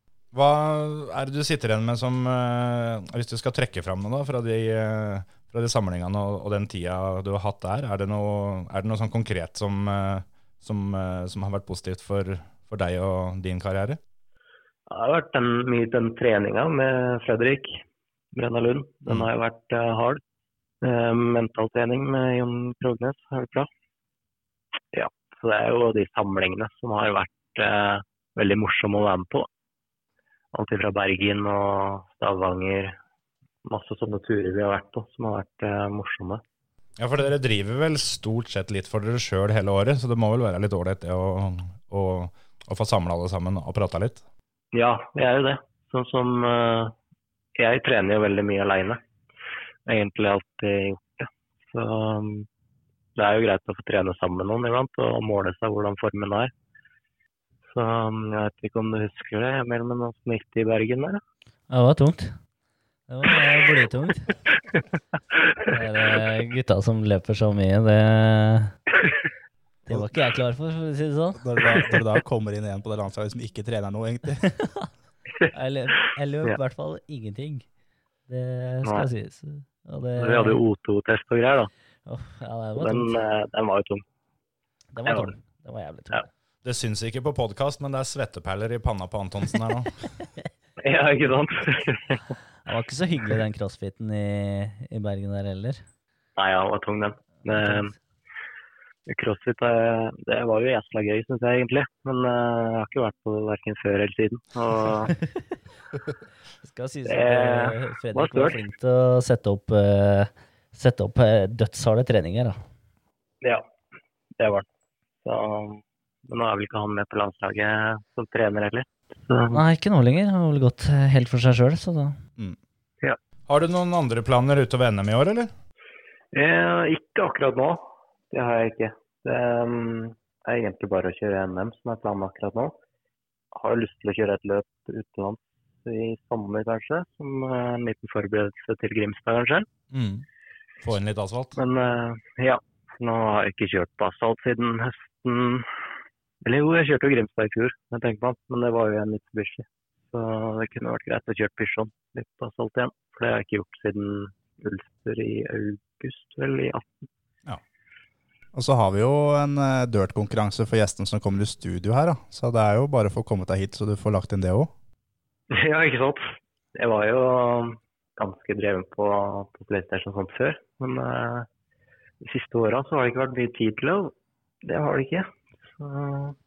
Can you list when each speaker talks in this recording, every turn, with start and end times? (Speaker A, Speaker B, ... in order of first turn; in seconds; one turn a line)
Speaker A: 0.3-14.0
Speaker B: 14.9-20.2
Speaker B: 20.8-23.7
Speaker B: 24.9-29.5
Speaker B: 30.5-33.0
Speaker B: 33.6-36.4
Speaker A: 37.0-44.2
Speaker B: 44.7-46.9
Speaker B: 47.5-49.0
Speaker B: 49.9-52.5
Speaker B: 53.1-56.5
Speaker B: 57.7-61.2
Speaker C: 61.7-62.3
Speaker C: 63.1-64.3
Speaker C: 65.7-68.8
Speaker C: 69.8-71.4
Speaker D: 71.3-74.5
Speaker C: 75.5-77.7
Speaker C: 78.3-80.6
Speaker B: 80.2-81.7
Speaker C: 82.0-83.2
Speaker B: 82.8-84.0
Speaker C: 84.9-86.3
Speaker B: 85.0-85.3
Speaker A: 86.6-90.1
Speaker B: 90.8-92.2
Speaker C: 92.6-95.8
Speaker B: 96.3-97.9
Speaker C: 97.5-97.9
Speaker B: 99.1-105.1
Speaker C: 105.1-105.5
Speaker C: 106.6-112.6
Speaker B: 107.0-108.6
Speaker B: 113.4-113.7
Speaker B: 114.4-114.7
Speaker B: 115.2-119.6
Speaker C: 119.5-122.2
Speaker A: 123.5-125.5
Speaker B: 126.3-132.8
Speaker B: 133.5-139.7
Speaker A: 139.9-140.2
Speaker A: 140.8-141.6
Speaker B: 141.6-145.7
Speaker B: 146.4-157.1
Speaker D: 158.5-164.7
Speaker B: 165.5-171.5
Speaker B: 172.2-176.4